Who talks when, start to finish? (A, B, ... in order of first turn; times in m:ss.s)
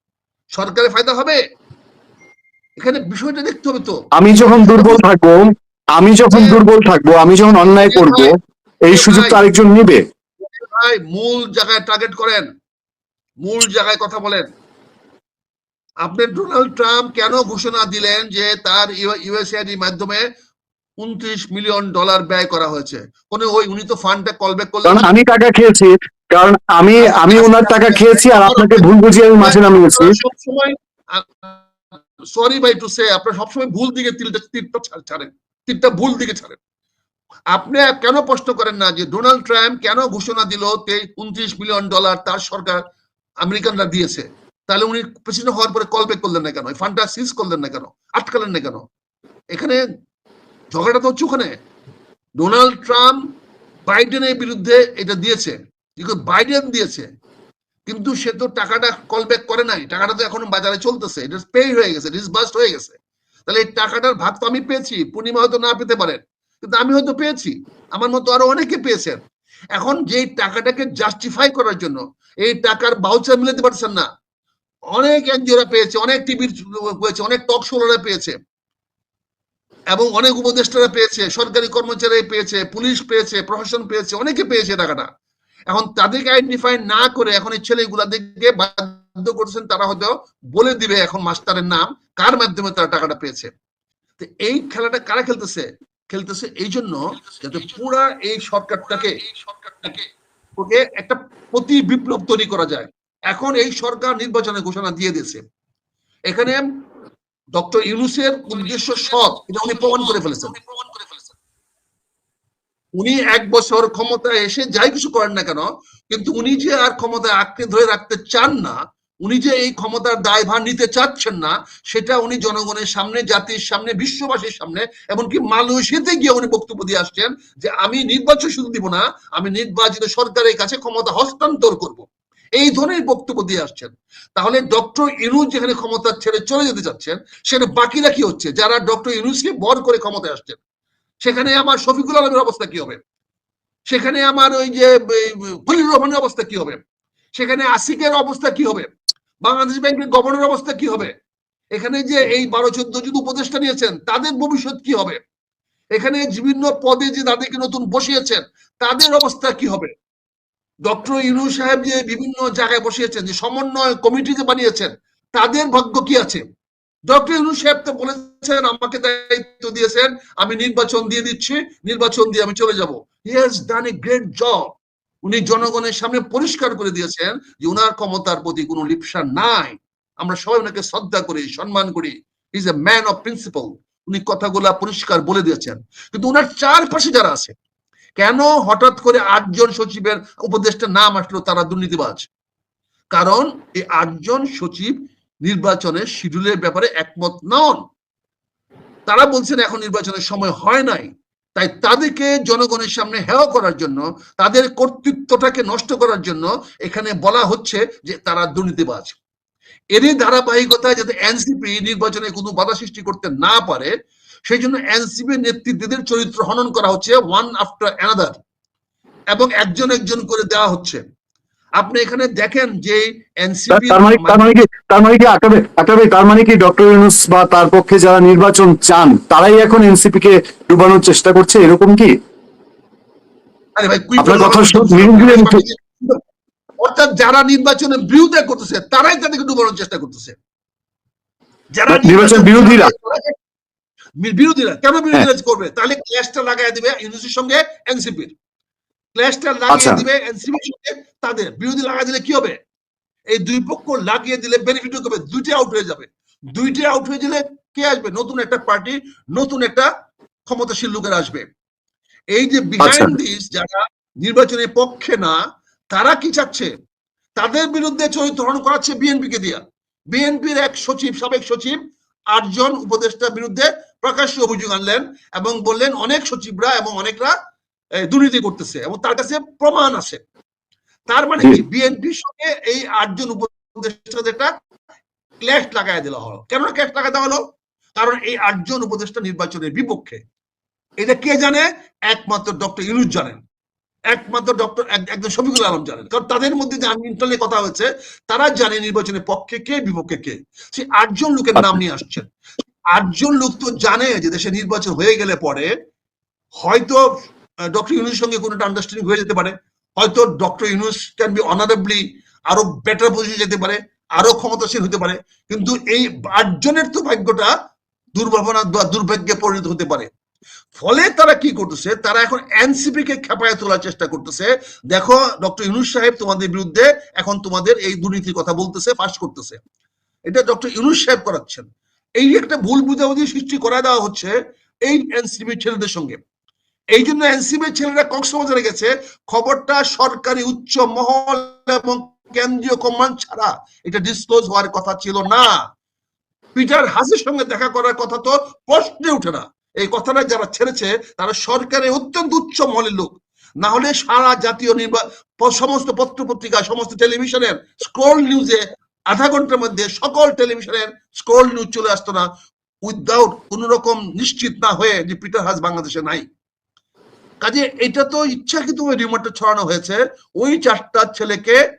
0:00.5-0:01.4 A
0:02.8-0:05.0 A
0:04.2-0:08.3 B
0:06.3-0:06.6 A
0:07.8-0:08.3 A
0:08.9-0:10.0 B
0:08.9-0:09.4 A
0:10.5-0:12.5 A
0:13.4-0:14.5 A
0:16.0-0:20.2 A
0:21.0-0:25.1 A
0:24.8-0:30.2 B
0:27.0-0:28.9 A
0:29.4-0:31.6 A
0:32.3-0:36.6 A
0:37.5-0:42.8 A
0:43.4-0:48.8 A
0:49.5-0:49.8 A
0:50.7-0:51.5 A
0:52.4-0:53.2 A
0:53.9-0:57.0 A
0:57.9-1:09.2 A
1:09.8-1:14.0 A
1:14.9-1:18.4 A
1:19.9-1:25.1 A
1:25.7-1:33.5 A
1:34.2-1:39.1 A
1:40.6-1:45.4 A
1:46.3-1:46.7 A
1:47.5-1:50.6 A
1:53.0-2:12.0 A
2:12.6-2:20.6 A
2:21.2-2:23.0 A
2:23.9-2:26.8 A
2:27.3-2:28.9 A
2:29.4-2:31.1 A
2:31.7-2:35.2 A
2:35.9-2:39.9 A
2:40.8-2:46.4 A
2:47.1-3:07.5 A
3:08.2-3:12.3 A
3:13.1-3:17.8 A
3:19.1-3:29.2 A
3:29.9-3:33.9 A
3:34.5-3:38.3 A
3:39.3-3:41.0 A
3:41.8-3:44.5 A
3:43.7-3:52.1 B
3:53.8-3:56.2 A
3:54.2-3:55.6 B
3:56.8-4:00.3 A
4:01.7-4:03.3 A
4:01.9-4:02.9 B
4:04.2-4:08.3 A
4:09.1-4:12.6 A
4:09.7-4:10.0 B
4:13.3-4:19.9 A
4:20.4-4:21.4 A
4:22.3-4:25.4 A
4:22.8-4:23.1 B
4:25.9-4:26.7 A
4:27.4-4:29.6 A
4:30.1-4:31.8 A
4:32.3-4:37.3 A
4:38.1-4:40.2 A
4:41.1-4:44.5 A
4:45.4-4:47.4 A
4:48.0-4:50.2 A
4:51.0-4:53.4 A
4:54.1-5:02.3 A
5:02.9-5:05.7 A
5:06.6-5:07.0 A
5:07.7-5:17.5 A
5:18.1-5:20.1 A
5:20.8-5:29.6 A
5:30.3-5:31.6 A
5:32.2-5:34.3 A
5:34.9-5:36.2 A
5:36.9-5:45.6 A
5:46.6-6:02.2 A
6:02.8-6:06.2 A
6:07.4-6:11.6 A